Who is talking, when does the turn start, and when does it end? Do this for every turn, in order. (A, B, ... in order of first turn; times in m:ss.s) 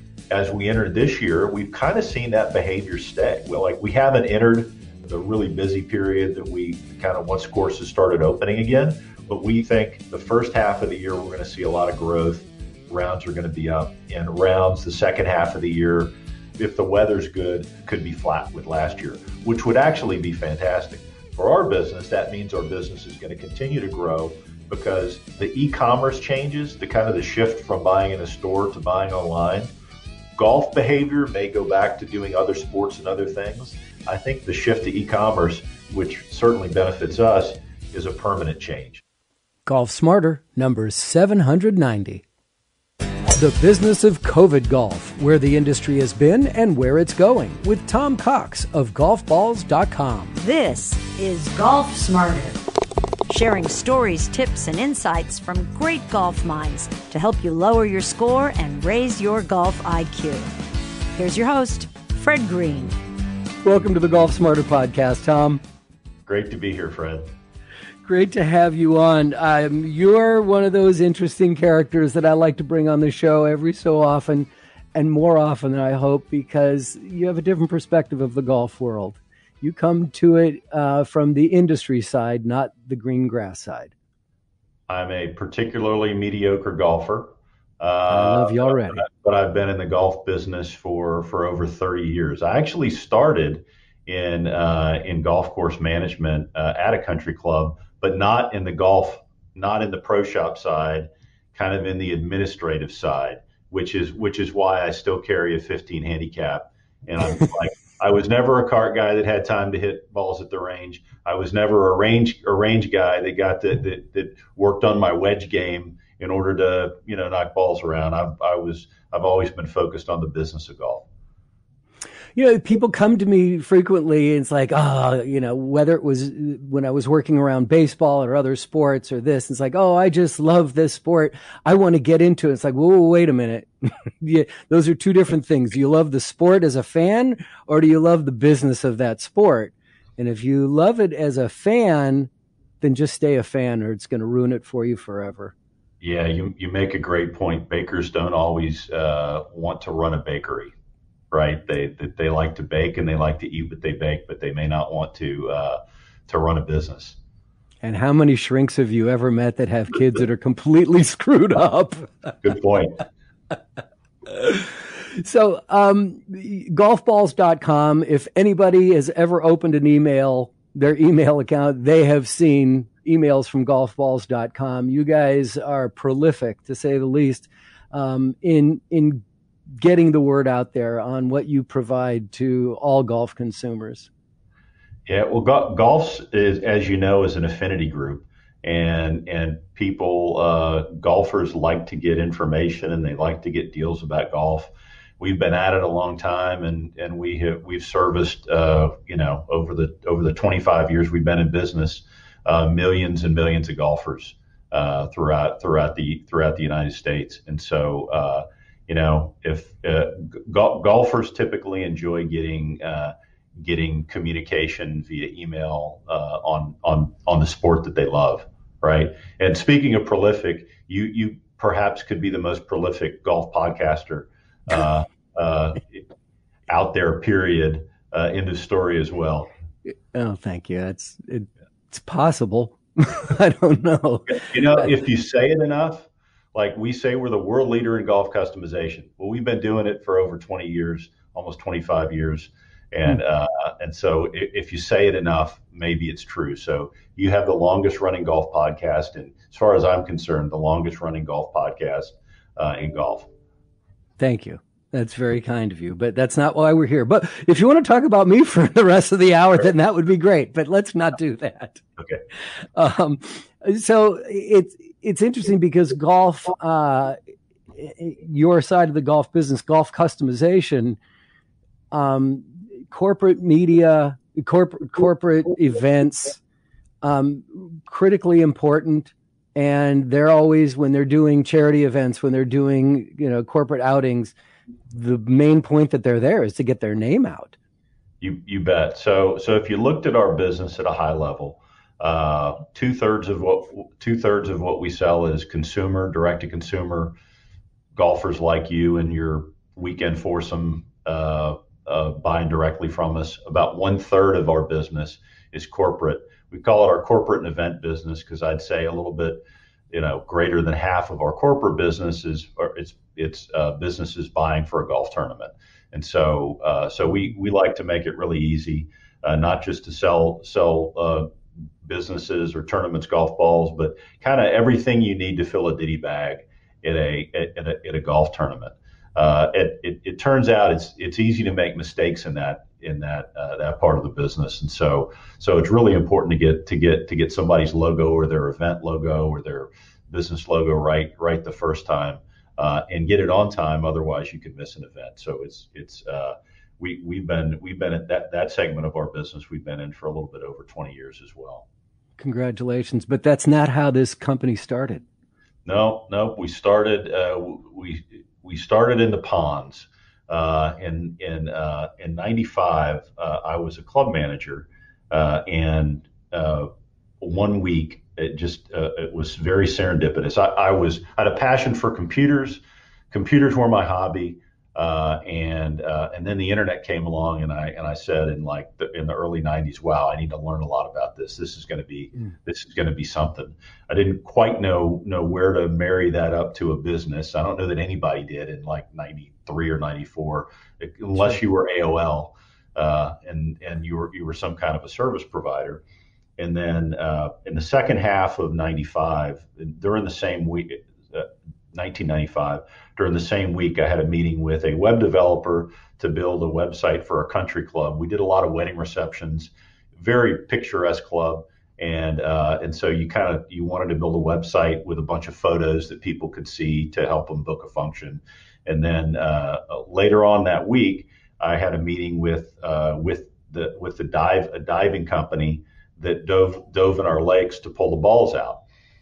0:00.3-0:29.7 A
0:30.4-0:39.0 A
0:39.6-0:42.2 B
0:43.3-0:50.4 B
0:50.4-0:52.6 C
0:53.3-1:00.5 C
1:01.1-1:02.9 C
1:03.6-1:05.6 B
1:06.3-1:07.3 A
1:08.0-1:23.9 B
1:24.9-2:01.0 A
1:28.1-1:29.0 B
2:02.3-2:22.3 B
2:22.8-2:25.5 B
2:26.0-2:30.7 A
2:31.3-2:37.2 A
2:37.8-2:42.3 B
2:42.4-2:43.0 A
2:44.3-2:59.2 B
2:59.7-3:04.1 B
3:05.1-3:46.1 A
3:46.7-3:49.5 A
3:49.9-3:54.9 B
3:54.3-4:13.3 A
4:14.2-4:21.8 B
4:22.6-4:27.2 B
4:27.7-4:31.0 B
4:31.9-4:36.4 B
4:37.0-4:44.3 B
4:44.9-4:47.6 B
4:48.2-4:57.1 A
4:57.9-5:21.3 A
5:21.8-5:51.6 A
5:52.2-5:55.0 B
5:55.6-6:06.7 A
6:07.2-6:35.8 A
6:36.4-7:08.6 A